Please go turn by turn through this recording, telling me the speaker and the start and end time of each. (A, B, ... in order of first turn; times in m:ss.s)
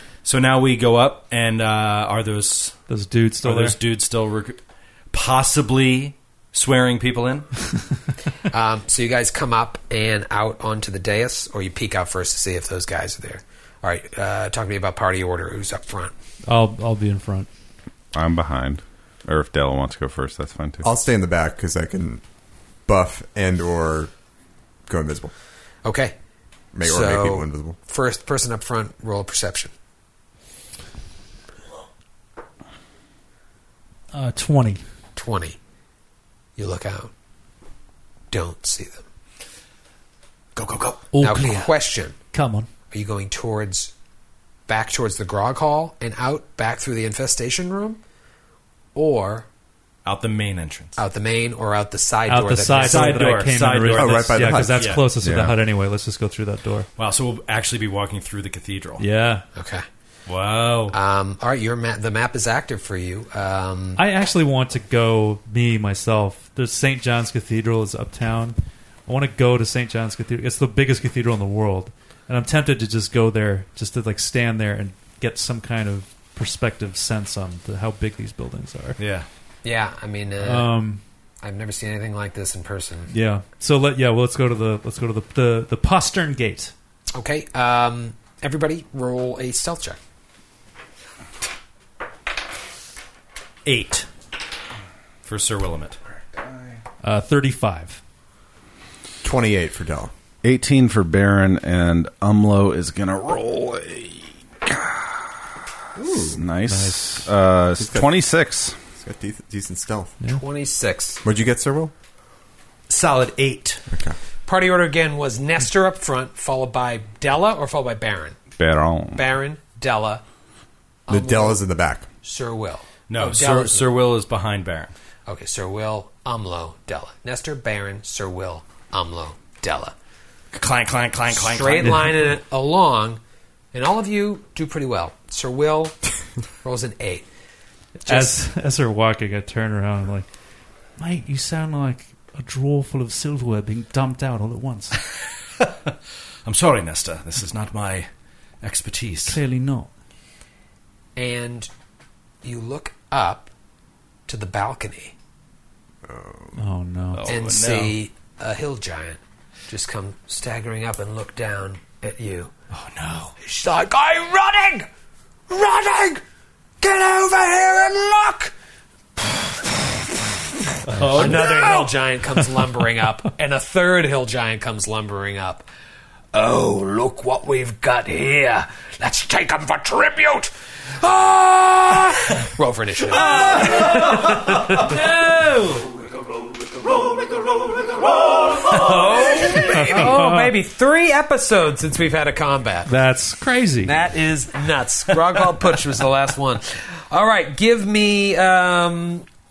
0:00.2-0:02.8 A
0:02.9-0:03.8 B
0:03.4-0:04.6 A
0:05.1-0:07.5 A
0:08.5-0:16.1 C
0:16.4-0:17.5 B
0:18.1-0:20.8 D
0:20.8-0:22.2 E
0:22.8-0:24.1 E
0:24.9-0:25.3 E
0:25.8-0:26.1 C
0:26.7-0:27.8 E
0:26.8-0:29.7 C
0:34.1-0:34.8 B
0:35.1-0:35.6 C
0:36.6-0:37.1 C
0:38.3-0:39.0 C
0:40.6-0:40.9 A
0:40.6-0:42.2 C
0:41.1-0:41.7 B
0:42.3-0:42.7 B
0:42.9-0:43.9 C
0:44.7-0:48.0 C
0:48.9-0:49.5 C
0:50.0-0:51.0 A
0:51.0-0:53.5 C
0:52.3-0:56.9 B
0:52.7-0:55.0 A
0:53.8-0:55.0 E
0:55.2-0:55.5 D
0:57.0-0:59.0 A
0:59.0-0:59.4 B
0:59.5-0:59.8 C
1:00.3-1:01.0 A
1:00.9-1:04.0 C
1:04.0-1:08.6 B
1:09.1-1:19.0 B
1:19.0-1:19.2 A
1:19.6-1:20.7 C
1:20.4-1:21.0 B
1:21.4-1:23.1 C
1:23.1-1:26.7 B
1:27.1-1:30.0 C
1:33.6-1:34.1 A
1:35.2-1:36.0 A
1:37.0-1:38.0 B
1:39.2-1:40.1 E
1:40.4-1:45.4 D
1:46.0-1:46.4 E
1:46.3-1:48.8 D
1:46.7-1:47.2 B
1:47.8-1:48.1 E
1:49.0-1:50.2 E
1:50.3-1:51.2 C
1:51.2-1:51.9 E
1:52.9-1:53.8 A
1:53.9-1:54.2 E
1:54.4-1:58.4 C
1:58.6-1:59.2 D
1:59.1-2:00.2 C
2:01.1-2:01.6 C
2:01.1-2:02.1 E
2:02.2-2:03.9 C
2:03.1-2:04.9 A
2:05.2-2:09.9 C
2:10.5-2:12.2 A
2:11.3-2:13.2 C
2:11.8-2:12.1 B
2:13.7-2:16.0 C
2:16.6-2:17.2 C
2:18.0-2:20.3 B
2:18.1-2:18.3 C
2:21.0-2:25.0 B
2:26.4-2:28.1 A
2:28.6-2:29.4 A
2:29.2-2:29.9 B
2:31.2-2:31.7 C
2:32.4-2:33.5 C
2:34.3-2:35.1 C
2:36.0-2:36.6 E
2:36.5-2:37.3 B
2:37.1-2:38.0 A
2:37.3-2:42.5 C
2:42.7-2:43.3 A
2:43.4-2:44.9 C
2:45.5-2:46.2 C
2:46.8-2:48.5 C
2:50.9-2:51.9 A
2:50.9-2:51.6 B
2:51.1-2:55.6 C
2:56.3-3:05.0 C
3:05.4-3:05.8 B
3:07.0-3:09.9 A
3:08.5-3:12.9 C
3:09.5-3:10.5 B
3:12.9-3:14.0 B
3:13.8-3:19.3 C